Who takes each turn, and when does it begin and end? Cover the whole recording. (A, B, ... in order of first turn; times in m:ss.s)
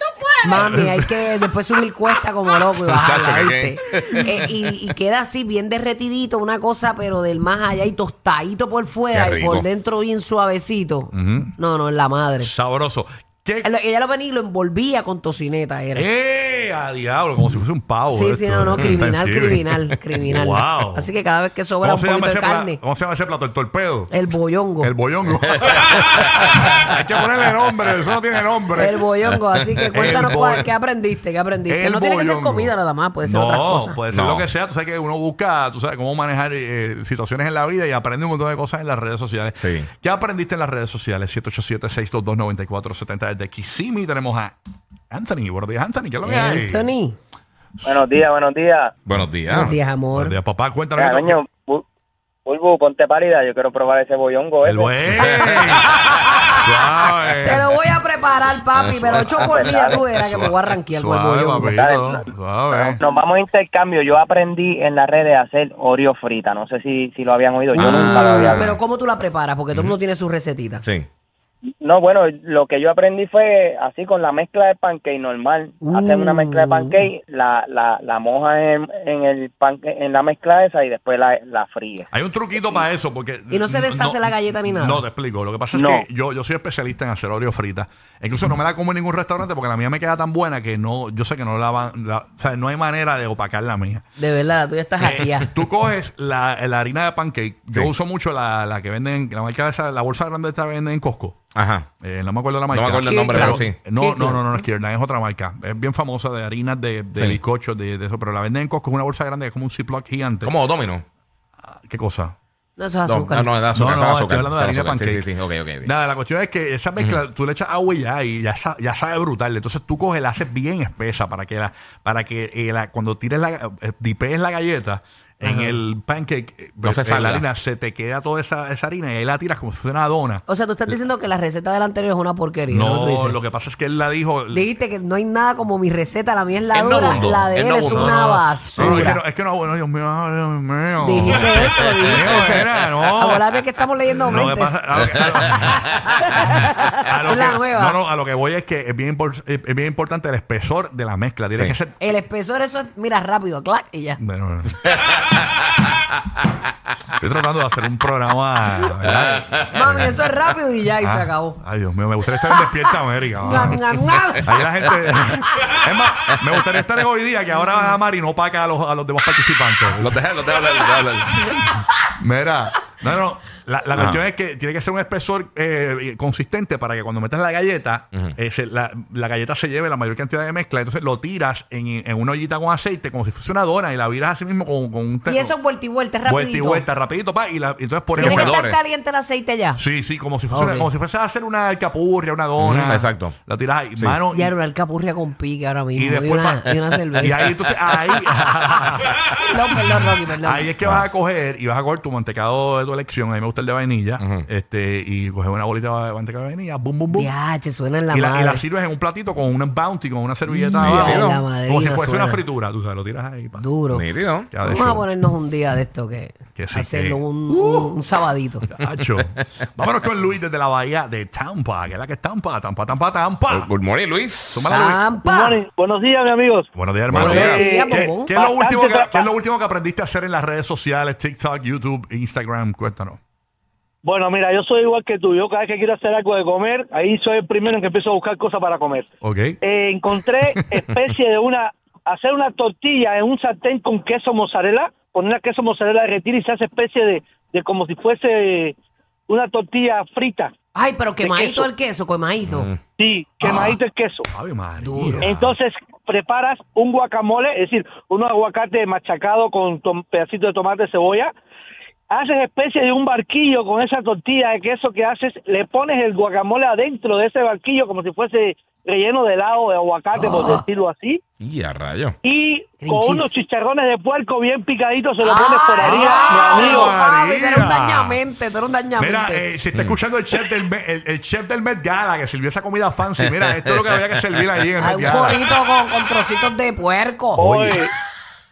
0:00.4-0:12.5 A
0:00.6-0:01.1 B
0:02.8-0:04.3 C
0:03.0-0:03.6 B
0:09.1-0:09.7 C
0:11.1-0:11.6 B
0:12.4-0:13.7 B
0:13.6-0:16.1 A
0:16.0-0:19.7 B
0:18.1-0:22.8 A
0:20.2-0:21.1 B
0:21.8-0:24.2 B
0:24.1-0:24.9 A
0:24.8-0:29.0 B
0:28.8-0:34.0 A
0:29.9-0:30.4 C
0:29.9-0:30.7 B
0:31.7-0:44.6 B
0:34.1-0:34.5 C
0:39.6-0:39.9 C
0:45.1-0:46.9 B
0:46.2-0:47.2 A
0:47.8-0:48.9 D
0:49.0-0:49.8 C
0:49.5-0:50.4 A
0:50.1-0:51.4 B
0:51.0-0:51.8 D
0:52.5-0:55.3 D
0:54.6-0:55.9 B
0:55.1-0:55.4 C
0:55.9-0:56.6 A
0:56.6-0:57.7 B
0:57.4-1:01.8 A
0:58.9-0:59.8 C
0:59.5-1:00.1 D
1:01.0-1:03.0 B
1:01.7-1:08.7 D
1:07.8-1:08.8 C
1:07.8-1:08.6 B
1:07.9-1:10.8 A
1:10.8-1:11.1 C
1:11.8-1:22.1 D
1:15.8-1:17.1 A
1:22.1-1:34.0 B
1:23.5-1:25.0 A
1:25.7-1:26.0 D
1:34.2-1:35.5 A
1:35.0-1:41.4 B
1:41.5-1:41.9 C
1:42.0-1:50.5 B
1:42.7-1:43.8 C
1:43.0-1:44.6 A
1:47.1-1:47.4 C
1:50.4-1:51.0 C
1:51.9-1:52.3 B
1:52.8-1:53.5 A
1:53.1-1:55.9 C
1:53.7-2:11.0 B
2:05.4-2:05.8 A
2:06.8-2:07.4 C
2:10.5-2:13.4 A
2:12.7-2:14.7 B
2:14.5-2:19.2 A
2:16.7-2:19.2 C
2:16.9-2:23.4 B
2:21.0-2:28.0 A
2:21.3-2:22.6 C
2:24.2-2:32.0 B
2:32.0-2:34.2 A
2:34.2-2:34.8 B
2:37.2-2:40.2 B
2:39.4-2:40.0 C
2:39.7-2:41.6 A
2:41.0-2:50.2 B
2:43.4-2:44.6 A
2:50.0-2:51.6 C
2:52.2-3:05.5 B
2:53.9-2:54.2 C
3:05.3-3:06.9 A
3:06.3-3:08.6 B
3:08.1-3:08.8 C
3:08.2-3:09.8 A
3:09.8-3:14.5 B
3:10.5-3:10.9 A
3:12.6-3:13.4 C
3:14.3-3:17.5 A
3:16.0-3:19.2 B
3:19.4-3:20.7 A
3:20.4-3:27.3 B
3:24.2-3:24.5 C
3:27.1-3:28.6 A
3:28.1-3:33.7 B
3:30.5-3:32.4 A
3:30.8-3:31.4 C
3:33.6-3:34.1 A
3:33.9-3:34.5 C
3:34.5-3:35.1 B
3:34.6-3:38.7 A
3:36.6-3:37.9 B
3:38.7-3:43.7 B
3:43.5-3:44.7 C
3:44.5-3:45.0 B
3:44.7-3:45.6 A
3:45.2-3:46.7 E
3:46.7-3:53.2 B
3:47.1-3:47.7 C
3:47.2-3:48.3 A
3:47.2-3:49.3 E
3:54.0-3:59.1 E
3:59.2-3:59.6 B
3:59.6-4:08.8 E
4:09.3-4:10.5 E
4:10.8-4:12.7 A
4:11.2-4:11.7 E
4:12.4-4:12.8 C
4:13.0-4:14.3 E
4:14.3-4:15.6 B
4:14.8-4:15.4 A
4:15.2-4:21.3 E
4:22.1-4:31.2 E
4:30.2-4:30.6 A
4:31.4-4:32.2 C
4:32.2-4:36.9 E
4:32.8-4:33.3 A
4:35.2-4:39.4 A
4:35.8-4:38.2 B
4:39.0-4:45.5 B
4:44.8-4:47.8 A
4:47.4-4:47.9 E